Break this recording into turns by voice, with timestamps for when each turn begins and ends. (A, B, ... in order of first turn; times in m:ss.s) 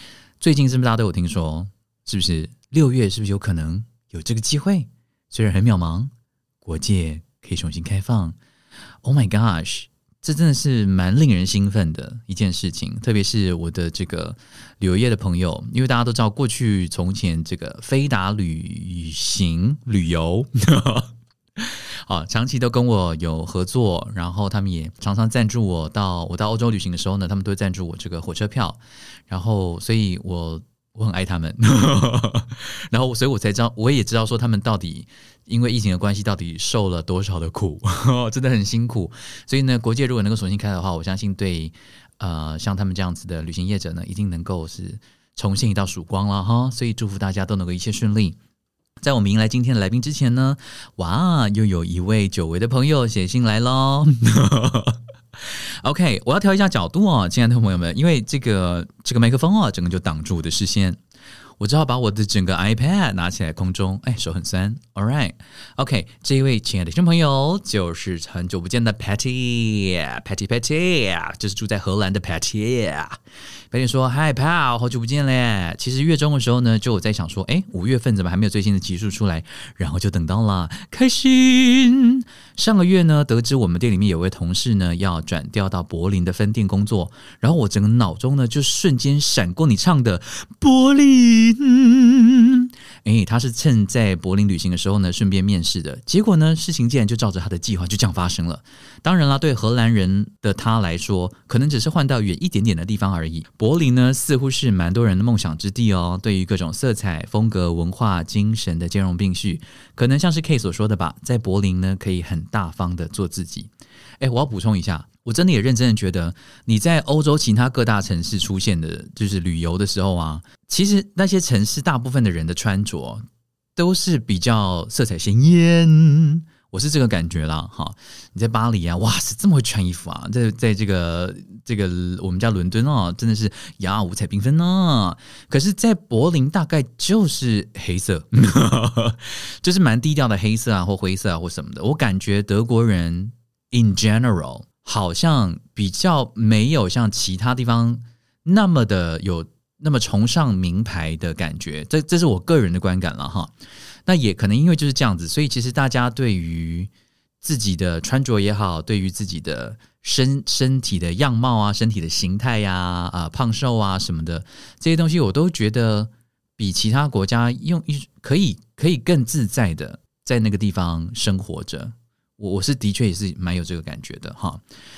0:00.4-0:06.1 A
0:06.6-0:08.4 A
0:09.0-0:48.4 A
0:49.0-1:01.0 A
1:01.6-1:13.2 A
1:13.7-2:03.2 A
2:03.8-2:33.5 A
2:34.1-2:36.9 A
2:37.4-2:54.6 A